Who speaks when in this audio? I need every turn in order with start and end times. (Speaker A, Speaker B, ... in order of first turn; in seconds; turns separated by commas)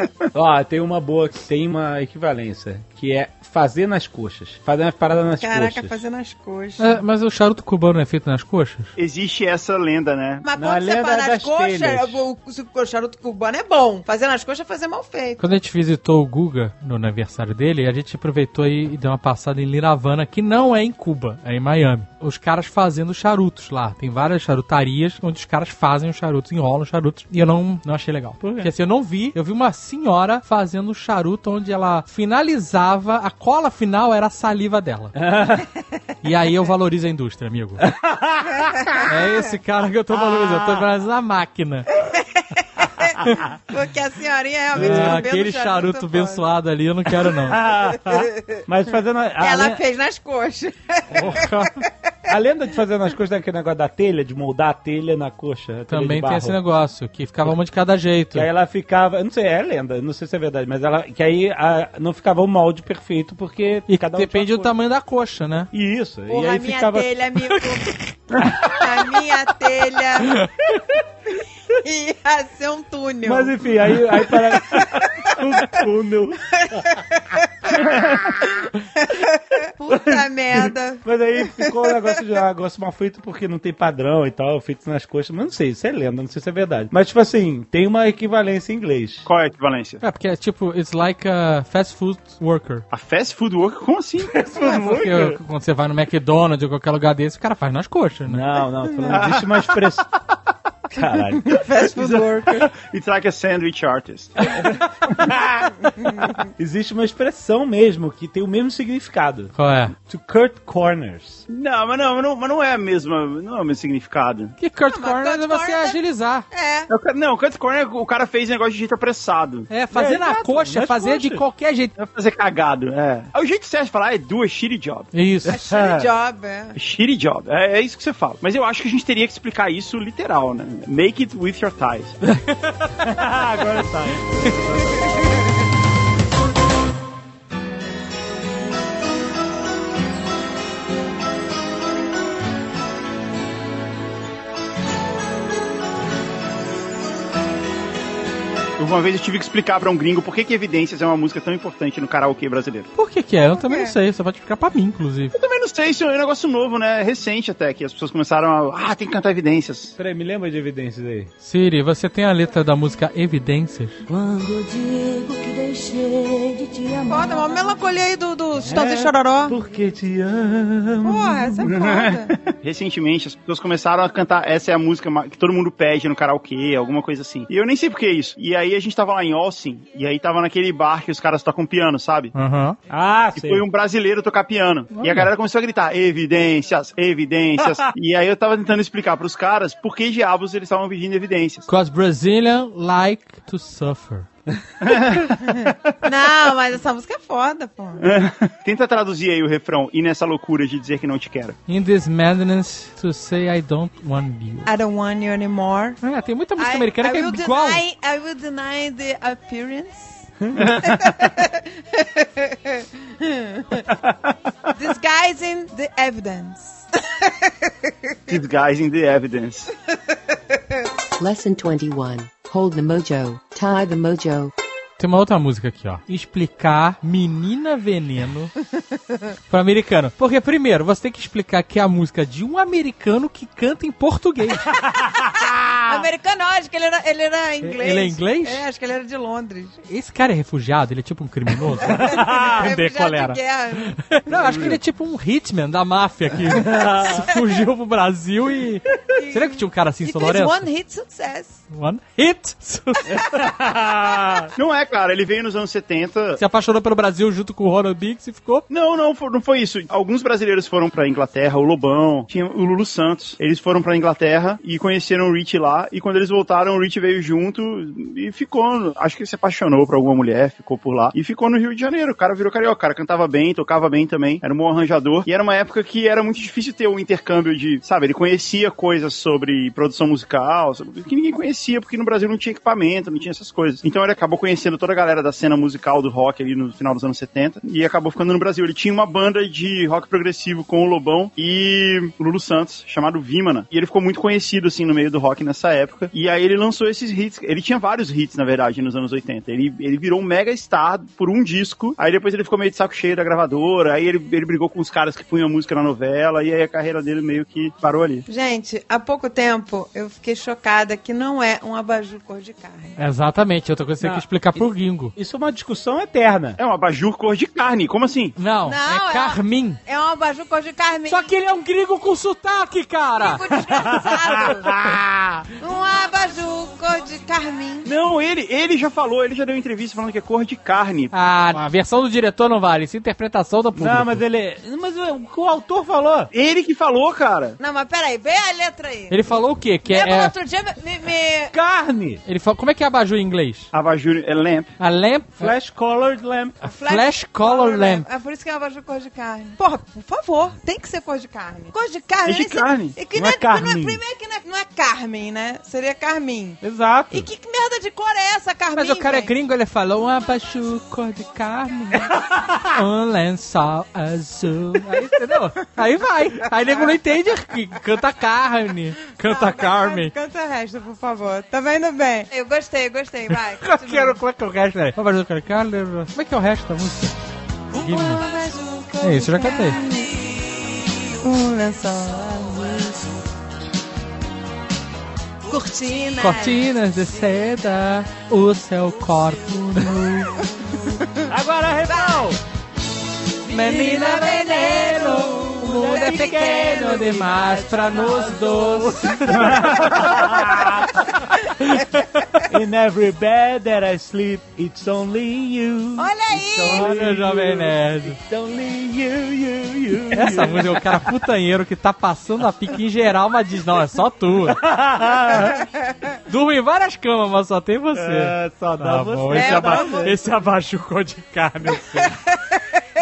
Speaker A: 0.3-6.0, Speaker B: 5.4-7.0, Speaker C: 6.8-8.9, Speaker D: 9.0-10.4, Speaker B: 10.4-15.4, Speaker A: 10.6-12.2, Speaker C: 15.4-35.1, Speaker A: 28.4-28.7, Speaker A: 35.1-35.7, Speaker C: 36.2-37.9, Speaker A: 37.8-39.0, Speaker C: 39.0-41.9, Speaker A: 40.1-40.9, Speaker B: 42.0-46.5, Speaker A: 44.7-45.3, Speaker C: 44.7-47.6, Speaker A: 47.2-49.8, Speaker B: 48.0-48.6, Speaker B: 49.4-51.6, Speaker C: 51.1-51.8, Speaker A: 52.3-56.6, Speaker C: 55.9-58.5, Speaker A: 58.3-64.7, Speaker C: 63.9-65.7, Speaker A: 65.7-67.1, Speaker B: 66.3-70.5, Speaker C: 67.6-68.0, Speaker B: 71.7-73.6, Speaker A: 73.2-77.0, Speaker B: 74.6-75.0, Speaker B: 76.6-82.0, Speaker A: 77.7-78.7, Speaker A: 79.9-89.3, Speaker D: 89.2-90.0, Speaker C: 90.0-92.8, Speaker D: 92.9-94.3, Speaker A: 94.2-95.4, Speaker C: 94.7-98.5, Speaker A: 98.3-100.1, Speaker D: 99.1-99.7, Speaker A: 100.9-101.7, Speaker B: 101.4-102.7, Speaker D: 101.7-104.7, Speaker A: 104.5-111.4, Speaker B: 105.9-106.3, Speaker C: 109.5-109.9, Speaker D: 111.5-114.5, Speaker C: 114.6-116.5, Speaker B: 114.9-116.0, Speaker B: 116.5-116.9, Speaker D: 116.9-119.7, Speaker C: 119.7-121.9, Speaker A: 119.9-121.4, Speaker D: 122.0-125.1, Speaker C: 125.1-125.5, Speaker B: 125.5-126.8, Speaker A: 125.5-126.1, Speaker D: 126.8-132.2, Speaker C: 132.5-132.9, Speaker A: 133.0-135.1, Speaker D: 148.8-152.9, Speaker C: 152.9-155.3, Speaker B: 153.7-153.9, Speaker D: 155.3-160.0, Speaker A: 160.0-161.3, Speaker C: 161.4-164.0, Speaker E: 164.1-167.6, Speaker B: 167.1-169.6, Speaker A: 168.6-171.7, Speaker B: 171.0-172.3, Speaker D: 171.7-182.3, Speaker C: 182.3-182.8, Speaker A: 182.9-183.6, Speaker D: 183.3-191.7, Speaker C: 184.9-185.3, Speaker A: 187.6-187.9, Speaker C: 191.7-194.3, Speaker D: 194.8-195.3, Speaker B: 195.4-198.0, Speaker D: 198.0-201.6, Speaker C: 201.7-204.7, Speaker B: 204.7-206.0, Speaker C: 206.0-207.8, Speaker B: 206.6-210.3, Speaker A: 210.4-211.2, Speaker B: 210.8-213.9, Speaker B: 214.7-217.5, Speaker D: 218.3-219.7, Speaker F: 221.2-224.5, Speaker C: 225.0-228.5, Speaker C: 229.5-234.8, Speaker A: 234.8-236.0, Speaker B: 235.8-239.8, Speaker C: 237.6-238.6, Speaker C: 239.9-250.7, Speaker A: 241.7-242.7, Speaker B: 242.0-244.0, Speaker A: 244.3-244.8, Speaker A: 246.4-247.2, Speaker B: 249.1-251.6, Speaker C: 251.7-253.2, Speaker A: 253.1-254.5, Speaker D: 254.5-256.4, Speaker C: 256.4-258.6, Speaker D: 258.7-308.2, Speaker B: 308.3-313.0, Speaker C: 313.0-315.1, Speaker A: 314.0-316.6, Speaker D: 316.6-318.4, Speaker C: 318.4-319.8, Speaker B: 318.6-321.3, Speaker C: 321.1-323.5, Speaker B: 323.2-324.8, Speaker A: 323.7-325.4, Speaker B: 325.6-327.9, Speaker D: 327.8-331.1, Speaker C: 331.1-334.2, Speaker A: 333.8-336.3, Speaker D: 336.3-337.6, Speaker B: 337.6-339.2, Speaker C: 339.1-340.3, Speaker B: 339.8-341.5, Speaker A: 341.5-342.2, Speaker C: 342.2-343.7, Speaker D: 343.7-344.7, Speaker C: 344.8-345.5, Speaker A: 345.4-346.6, Speaker B: 346.6-359.3, Speaker C: 346.8-348.1, Speaker D: 352.2-352.9, Speaker A: 353.1-354.0, Speaker A: 356.6-357.3, Speaker C: 358.8-370.1, Speaker B: 369.1-374.2, Speaker C: 373.6-377.1, Speaker C: 377.7-378.2, Speaker B: 377.7-380.2, Speaker C: 379.0-379.8, Speaker B: 381.2-383.1, Speaker B: 385.5-386.6, Speaker C: 386.2-390.4, Speaker B: 390.6-391.2, Speaker A: 391.3-392.4, Speaker B: 391.9-392.4, Speaker B: 393.4-398.8, Speaker C: 393.5-399.9, Speaker A: 395.6-397.4, Speaker A: 398.6-401.1, Speaker B: 399.7-400.7, Speaker B: 401.2-401.7, Speaker C: 401.6-402.1, Speaker A: 402.4-411.1, Speaker B: 406.0-406.9, Speaker C: 406.7-408.2, Speaker C: 410.1-414.6, Speaker A: 414.5-415.6, Speaker C: 416.3-422.1, Speaker A: 417.9-420.2, Speaker B: 419.3-420.1, Speaker B: 422.3-422.6